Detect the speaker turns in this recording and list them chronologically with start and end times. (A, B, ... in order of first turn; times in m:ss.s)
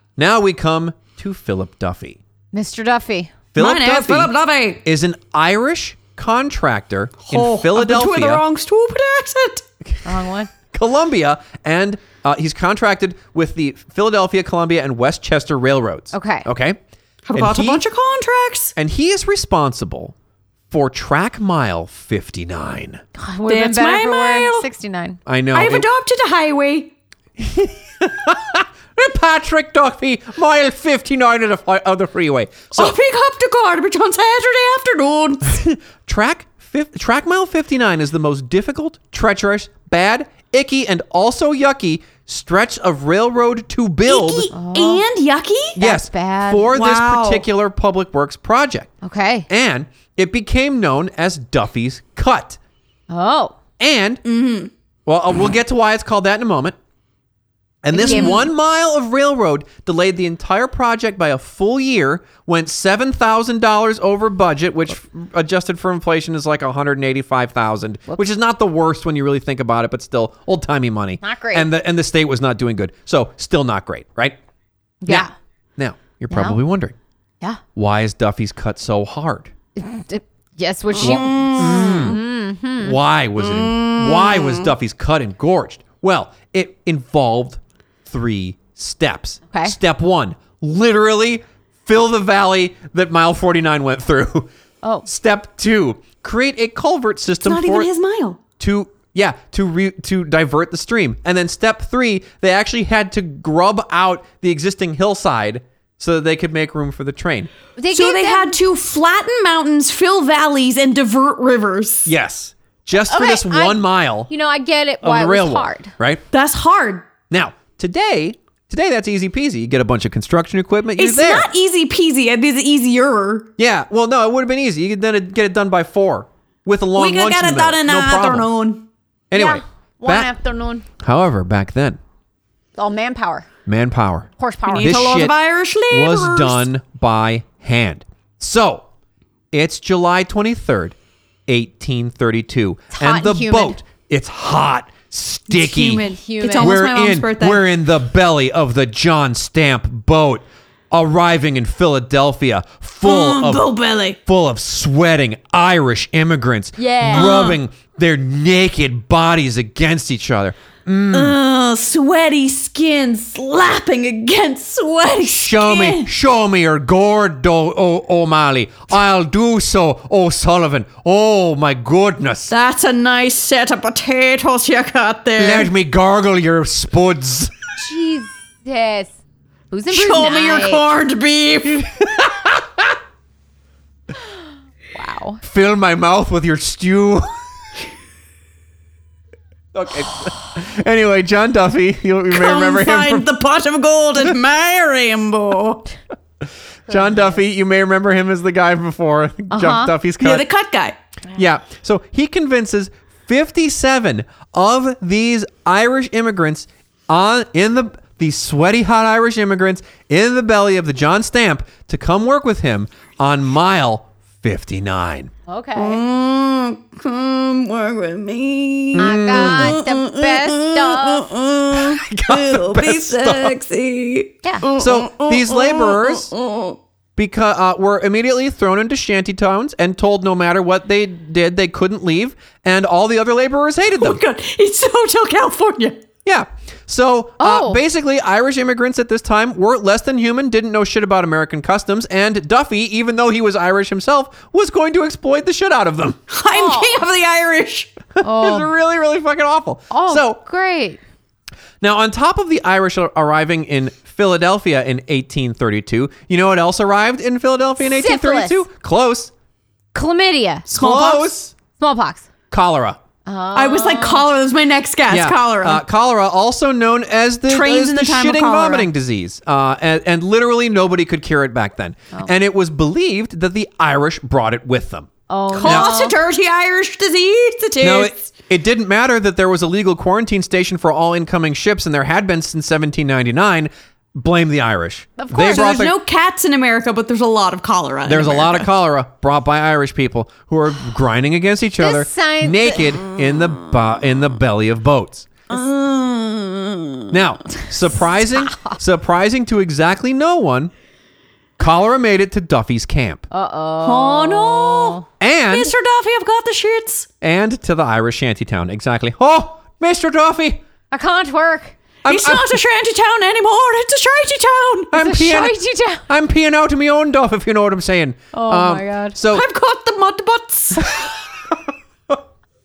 0:00.2-0:02.2 A
0:02.5-0:03.3 B
0:03.5-0:04.3 A
0:03.6-0:04.8 C
0:04.8-0:08.4 A
0:07.3-0:09.6 C
0:10.0-0:10.5 B
0:10.7-0:16.8 A
0:16.1-0:16.5 B
0:17.2-0:18.7 C
0:17.3-0:17.8 A
0:18.8-0:20.1 A
0:20.7-0:23.0 A
0:23.2-0:25.2 B
0:23.5-0:24.7 C
0:25.2-0:25.8 A
0:25.5-0:26.9 C
0:27.4-0:33.0 A
0:32.7-0:35.6 C
0:35.4-0:44.5 A
0:44.0-0:45.8 C
0:44.5-0:45.0 B
0:45.8-0:48.9 A
0:45.8-0:46.7 B
0:46.7-0:47.4 C
0:49.0-0:49.5 B
0:49.5-0:52.6 A
0:53.1-0:53.6 B
0:53.8-0:54.2 A
0:54.2-0:54.7 C
0:55.0-0:56.8 A
0:57.8-1:14.4 A
0:57.9-0:58.4 B
0:58.0-0:58.4 C
1:11.2-1:11.7 B
1:15.0-1:15.3 B
1:15.1-1:16.9 A
1:16.3-1:16.6 B
1:17.7-1:19.5 A
1:19.8-1:23.0 B
1:20.9-1:22.1 C
1:21.0-1:22.2 A
1:22.8-1:34.5 A
1:23.4-1:24.7 C
1:35.0-1:37.9 A
1:37.4-1:38.4 C
1:38.6-1:47.5 A
1:47.8-1:48.6 B
1:47.9-1:52.1 C
1:52.0-1:54.3 A
1:53.1-1:55.9 B
1:55.0-1:56.2 A
1:56.3-1:57.1 C
1:57.3-2:01.5 A
2:01.0-2:03.5 C
2:03.6-2:08.5 A
2:07.0-2:08.9 C
2:09.3-2:10.3 A
2:09.3-2:10.8 B
2:11.0-2:12.0 A
2:12.8-2:13.4 B
2:13.6-2:15.3 A
2:14.4-2:15.0 B
2:14.7-2:16.6 C
2:15.9-2:18.8 A
2:19.5-2:20.9 A
2:21.5-2:26.0 A
2:22.9-2:23.8 B
2:25.6-2:27.6 C
2:26.0-2:26.8 B
2:26.6-2:33.7 A
2:33.0-2:34.2 C
2:34.2-2:41.4 A
2:36.8-2:37.4 B
2:37.1-2:37.6 C
2:41.1-2:46.1 C
2:45.3-2:52.5 A
2:52.5-2:55.7 C
2:55.4-2:57.5 A
2:57.8-2:59.1 B
2:59.7-3:00.8 B
2:59.9-3:01.9 C
3:01.7-3:02.9 A
3:04.9-3:05.4 B
3:05.4-3:07.3 A
3:09.7-3:13.3 A
3:12.3-3:15.9 C
3:16.9-3:20.4 A
3:19.5-3:19.9 B
3:20.2-3:21.0 C
3:21.3-3:35.3 A
3:35.5-3:36.0 B
3:35.8-3:46.8 C
3:38.9-3:39.8 A
3:39.0-3:41.3 B
3:41.7-3:43.5 A
3:44.7-3:46.3 A
3:47.2-3:54.2 A
3:53.9-3:56.0 C
3:56.2-4:06.2 A
3:57.4-3:57.8 B
4:06.3-4:07.9 C
4:06.5-4:07.0 B
4:08.2-4:10.4 A
4:08.2-4:08.7 B
4:09.9-4:11.0 B
4:11.8-4:19.3 A
4:17.8-4:18.6 B
4:19.9-4:20.7 B
4:20.7-4:21.5 A
4:20.7-4:21.3 C
4:21.8-4:22.3 B
4:22.5-4:23.0 A
4:23.2-4:24.3 B
4:23.5-4:25.8 C
4:25.1-4:35.1 A
4:27.5-4:28.9 C
4:35.3-4:36.2 B
4:35.5-4:38.2 C
4:35.6-4:35.9 A
4:37.8-4:45.9 A
4:45.2-4:45.7 B
4:45.3-4:48.7 C
4:48.0-4:55.3 A
4:51.8-4:52.9 B
4:55.5-4:57.1 C
4:57.1-5:00.7 A
4:58.5-4:58.8 B
5:01.6-5:03.2 A
5:03.3-5:05.0 B
5:03.8-5:07.1 C
5:05.2-5:05.7 A
5:07.2-5:10.6 A
5:10.9-5:11.8 B
5:12.0-5:12.6 A
5:12.1-5:15.0 C
5:14.9-5:15.6 A
5:15.0-5:16.0 B
5:16.1-5:19.4 A
5:18.3-5:19.2 B
5:19.3-5:20.9 C
5:20.8-5:22.2 A